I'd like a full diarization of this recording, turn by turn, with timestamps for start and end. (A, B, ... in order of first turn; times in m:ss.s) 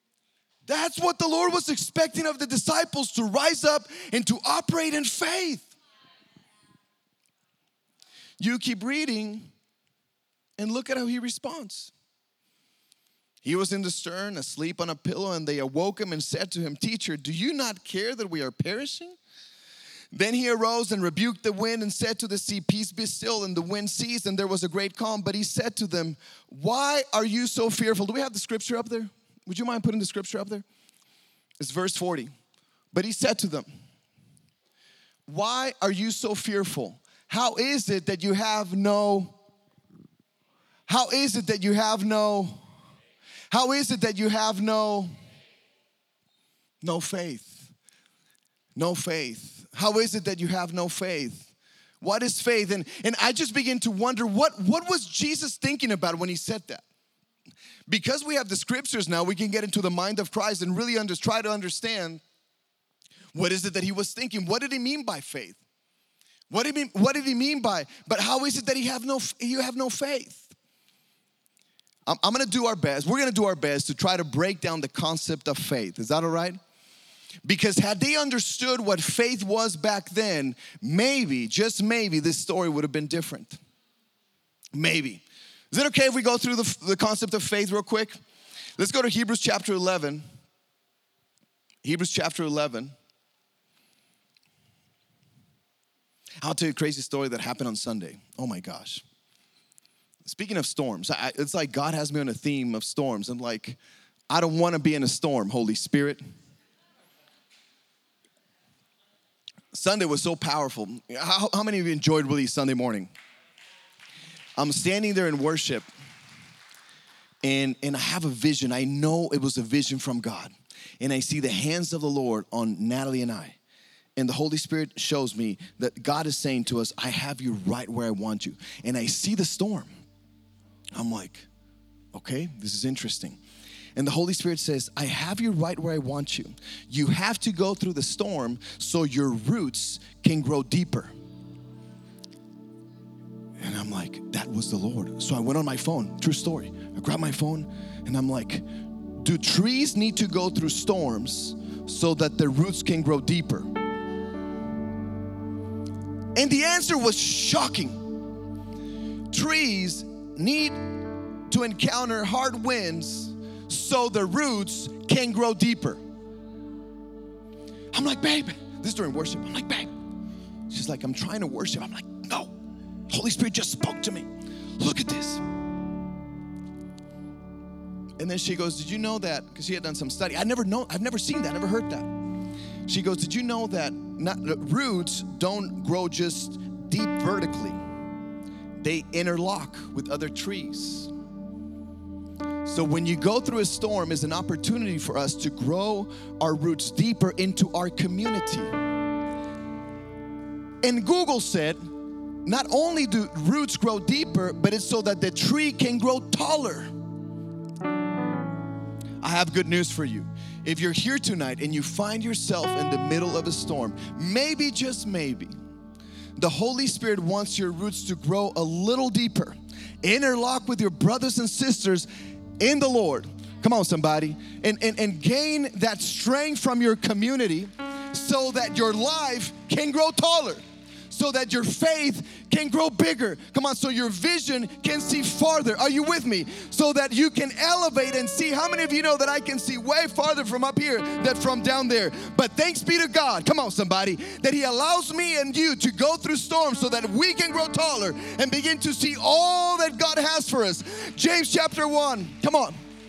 0:00.7-0:05.7 A
0:08.4-0:09.5 A
0:10.6-0:11.9 A
0:13.4-0:19.2 A
0:20.1-0:30.6 A
0:31.6-0:32.3 A
0:32.9-0:33.7 A
0:35.3-0:39.4 A
0:40.9-0:42.6 A
0:43.5-0:45.1 A
0:46.8-0:47.7 A
0:48.8-0:56.8 A
0:57.9-1:02.2 A
1:03.3-1:05.6 A
1:06.5-1:10.6 A
1:12.1-1:16.6 A
1:17.4-1:23.6 A
1:24.7-1:28.2 A
1:28.8-1:30.2 A
1:31.8-1:32.9 A
1:36.4-1:39.0 A
1:40.2-1:43.8 A
1:44.3-1:46.2 A
1:49.7-1:53.1 A
1:54.6-1:55.9 A
1:57.4-2:03.6 A
2:04.2-2:09.9 A
2:11.0-2:11.5 A
2:12.1-2:13.4 A
2:14.0-2:21.1 A
2:23.6-2:28.6 A
2:29.2-2:33.7 A
2:36.4-2:38.0 A
2:39.3-2:40.8 A
2:41.5-2:46.0 A
2:47.9-2:49.9 A
2:50.7-2:52.5 A
2:53.1-2:54.3 A
2:54.8-2:55.4 A
2:58.2-3:02.1 A
3:02.9-3:07.8 A
3:08.8-3:11.1 A
3:12.6-3:18.7 A
3:20.8-3:21.8 A
3:22.4-3:26.9 A
3:29.2-3:35.5 A
3:36.4-4:12.8 A